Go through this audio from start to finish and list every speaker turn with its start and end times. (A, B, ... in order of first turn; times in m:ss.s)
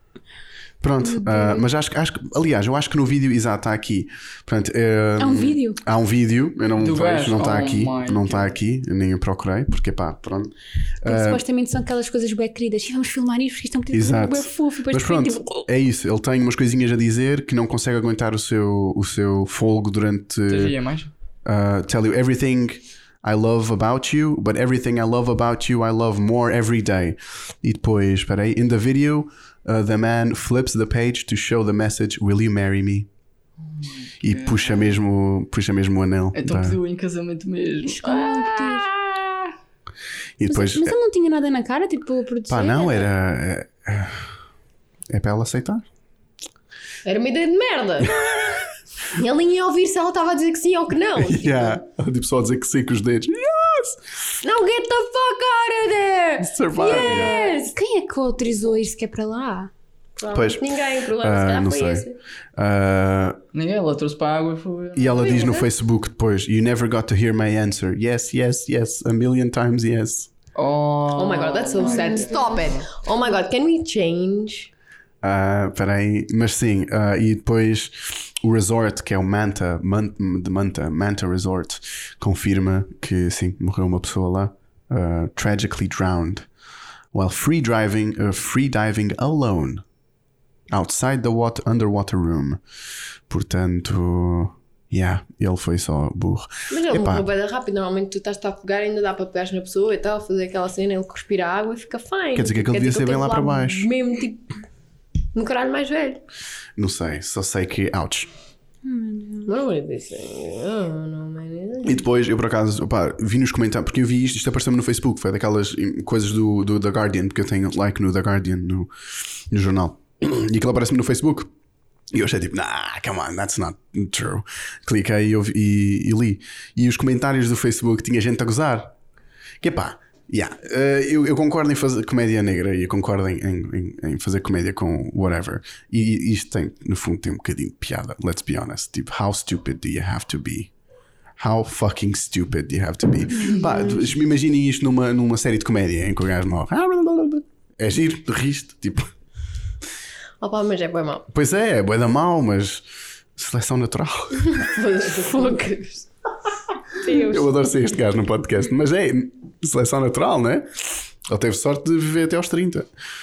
0:00.8-0:11.4 A
0:01.0-0:01.6 B
0:05.2-0:05.8 B
0:06.8-0:08.6 C
0:11.0-0:15.7 B
0:13.9-0:20.8 A
0:20.5-0:21.1 C
0:21.4-0:33.1 A
0:33.7-0:34.9 C
0:34.2-0:36.8 A
0:36.3-0:39.4 C
0:37.8-0:38.9 B
0:40.4-0:40.9 A
0:40.5-0:43.1 B
0:42.5-0:44.3 A
0:45.1-0:45.8 A
0:47.0-0:48.3 D
0:49.1-0:51.8 D
0:51.2-0:54.0 A
0:54.4-0:57.8 D
0:56.4-0:57.4 A
0:56.8-0:59.7 B
1:00.2-1:02.2 D
1:00.3-1:03.4 A
1:03.5-1:05.4 C
1:04.9-1:10.3 A
1:05.2-1:05.7 D
1:10.6-1:12.9 C
1:11.1-1:14.7 D
1:15.2-1:26.5 A
1:27.1-1:29.8 A
1:30.7-1:32.6 A
1:33.3-1:37.2 A
1:36.7-1:44.5 D
1:42.4-1:43.9 A
1:45.3-1:46.2 D
1:46.8-1:48.3 A
1:48.8-1:49.5 B
1:49.5-1:52.0 D
1:51.8-1:58.9 A
1:59.5-2:01.5 A
2:02.1-2:08.9 A
2:09.6-2:20.7 A
2:21.4-2:29.1 A
2:30.4-2:31.3 D
2:31.3-2:34.7 A
2:34.5-2:36.1 D
2:37.0-2:37.5 B
2:37.1-2:42.9 A